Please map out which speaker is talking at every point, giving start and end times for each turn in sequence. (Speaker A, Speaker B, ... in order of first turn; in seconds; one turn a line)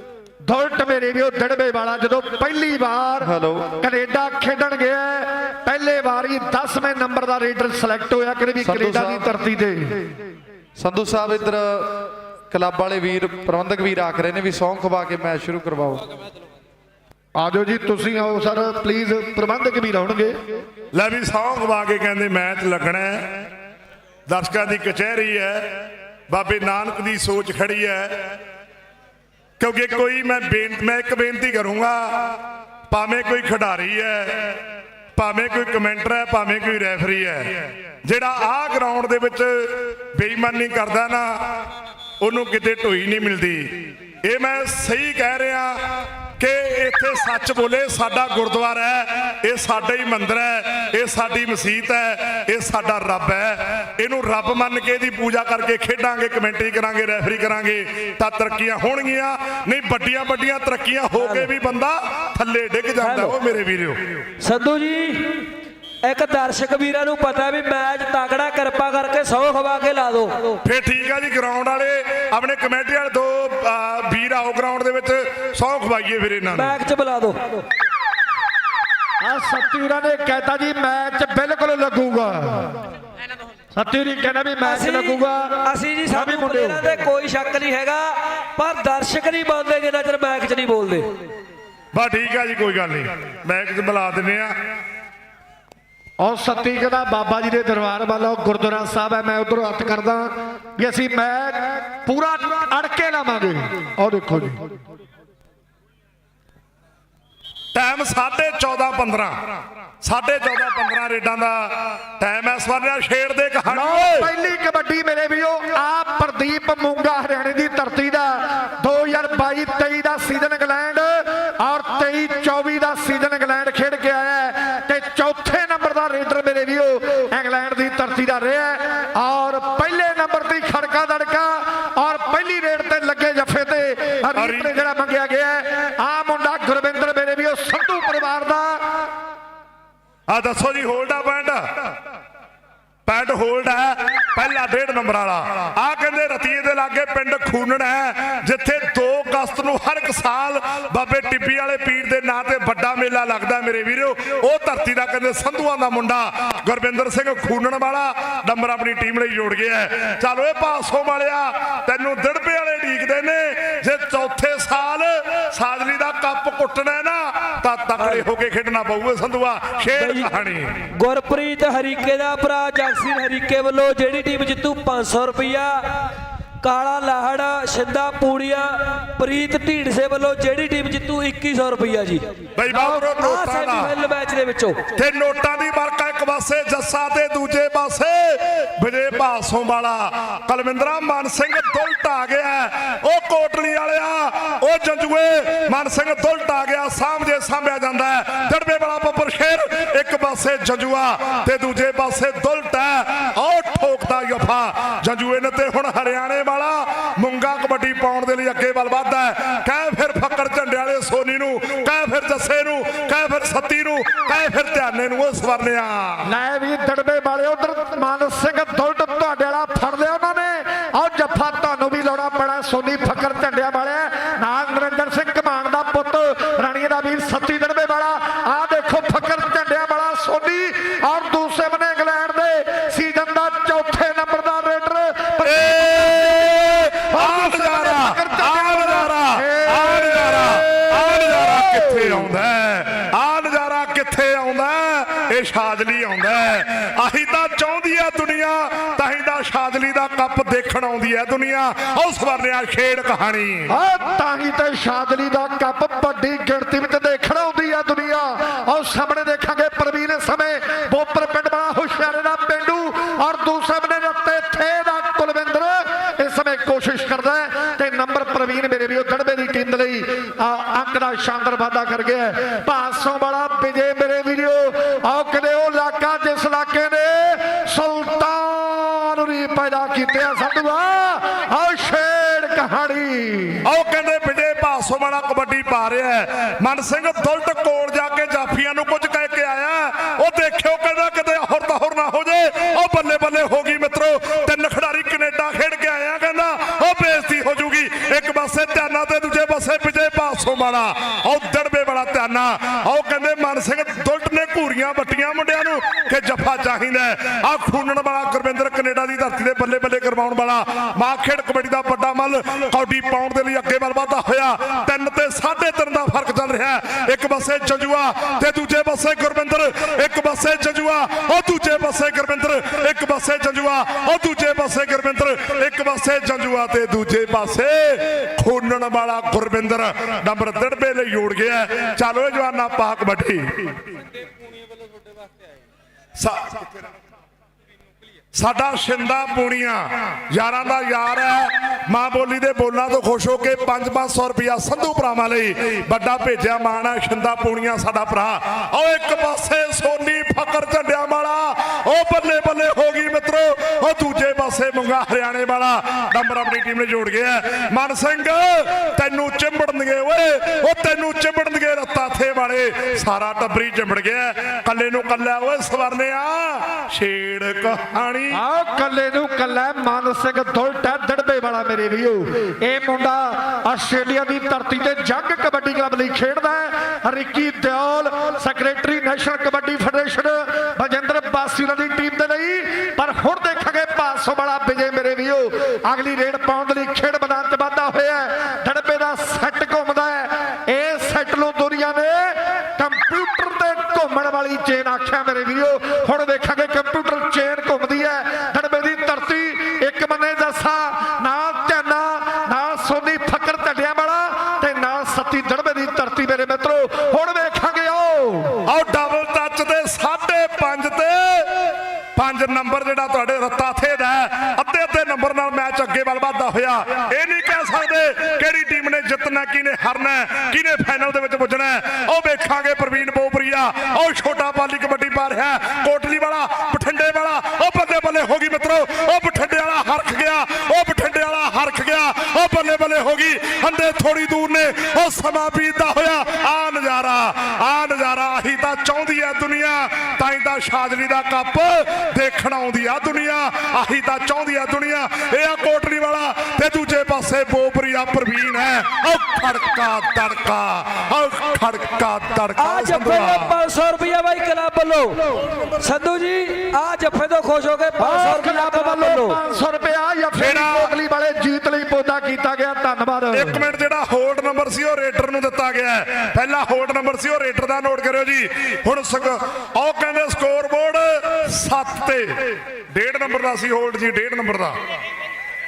Speaker A: 0.5-10.1
Speaker B: 3.2-3.8
Speaker B: 8.6-9.3
Speaker B: 10.8-16.1
Speaker A: 17.4-20.6
Speaker C: 20.9-23.4
Speaker C: 24.3-28.4
Speaker C: 29.6-34.6
Speaker C: 35.1-41.5
Speaker C: 42.2-45.8
Speaker C: 46.4-64.3
Speaker D: 61.2-61.5
Speaker D: 63.0-63.4
Speaker D: 64.4-65.5
Speaker D: 66.0-70.6
Speaker C: 70.6-76.7
Speaker D: 76.5-77.6
Speaker A: 79.2-82.8
Speaker A: 83.7-86.9
Speaker D: 84.6-91.2
Speaker C: 91.9-94.5
Speaker A: 96.2-104.7
Speaker C: 107.7-114.3
Speaker A: 113.7-138.8
Speaker C: 134.3-134.7
Speaker C: 140.3-141.9
Speaker C: 143.1-170.8
Speaker D: 168.0-168.2
Speaker D: 169.9-170.3
Speaker D: 170.9-176.1
Speaker D: 176.6-184.8
Speaker C: 182.6-183.9
Speaker C: 184.9-216.2
Speaker A: 216.2-236.6
Speaker C: 235.4-253.7
Speaker A: 237.1-242.2
Speaker A: 253.7-283.6
Speaker C: 283.6-333.8
Speaker C: 336.2-336.6
Speaker C: 338.3-368.4
Speaker A: 368.3-408.6
Speaker C: 408.6-453.5
Speaker D: 452.6-459.4
Speaker A: 458.0-463.6
Speaker C: 460.4-460.9
Speaker C: 463.3-474.8